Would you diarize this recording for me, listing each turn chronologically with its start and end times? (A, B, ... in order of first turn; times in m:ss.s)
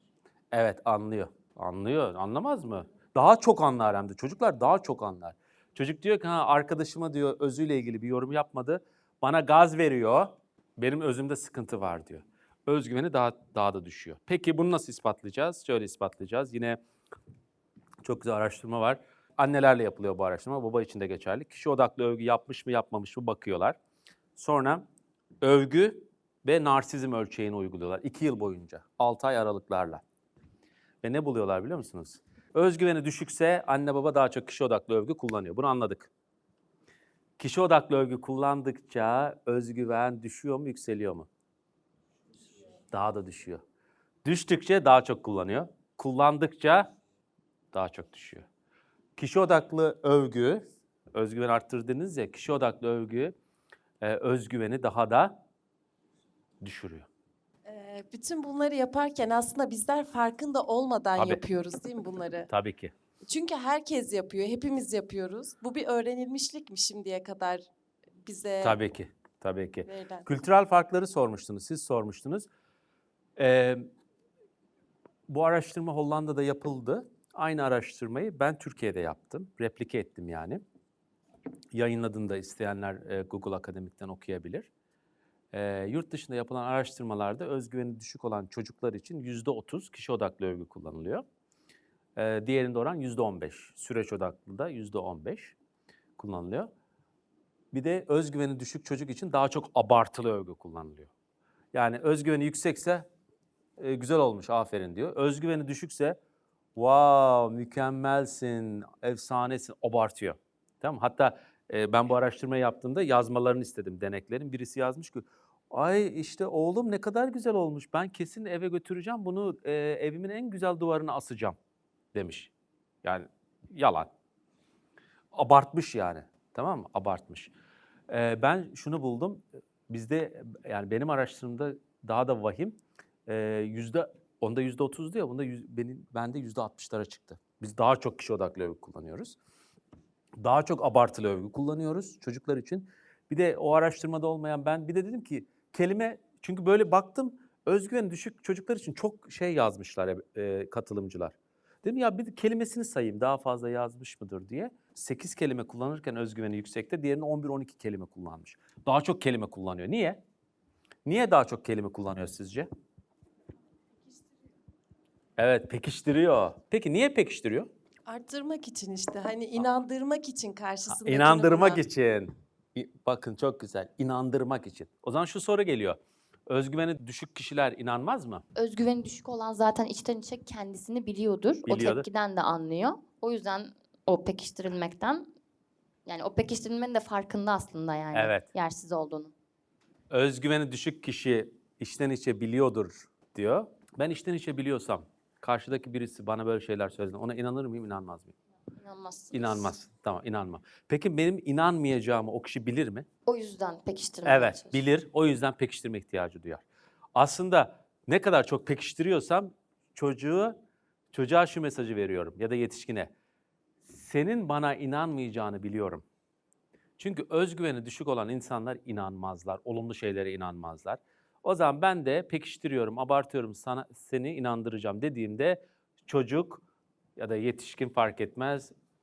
0:00.5-0:16.8 A
0:18.0-0:23.8 A
0:24.4-0:24.8 A
0:25.4-0:30.0 A
0:31.0-0:36.1 A
0:37.4-0:41.3 A
0:42.9-0:43.6 A
0:44.2-0:46.9 A
0:47.7-0:48.4 A
0:49.2-0:50.6 A
0:51.1-0:53.3 A
0:54.0-0:55.4 A
0:56.6-0:57.1 A
0:57.7-1:02.5 B
1:01.2-1:01.4 A
1:02.5-1:02.9 A
1:03.3-1:07.7 B
1:08.2-1:08.8 B
1:08.6-1:12.5 A
1:09.8-1:10.2 B
1:13.4-1:13.9 A
1:15.3-1:20.6 A
1:21.7-1:24.7 A
1:25.5-1:31.2 A
1:32.2-1:35.6 A
1:36.2-1:36.7 A
1:37.7-1:41.1 A
1:41.7-1:43.1 A
1:43.8-1:46.2 A
1:46.7-2:01.6 A
2:02.1-2:02.5 A
2:03.0-2:04.1 A
2:05.3-2:07.5 A
2:08.1-2:19.4 A
2:20.4-2:40.2 A
2:41.0-2:42.7 A
2:45.4-2:47.7 A
2:48.1-2:51.8 B
2:50.9-2:58.4 A
2:58.6-3:05.3 C
3:01.6-3:02.1 A
3:06.0-3:09.3 C
3:08.1-3:08.5 A
3:10.1-3:18.3 A
3:18.8-3:19.7 C
3:19.3-3:23.1 A
3:23.2-3:24.8 C
3:24.2-3:30.6 A
3:31.1-3:33.1 A
3:33.8-3:36.0 A
3:37.0-3:46.6 A
3:47.2-3:48.7 A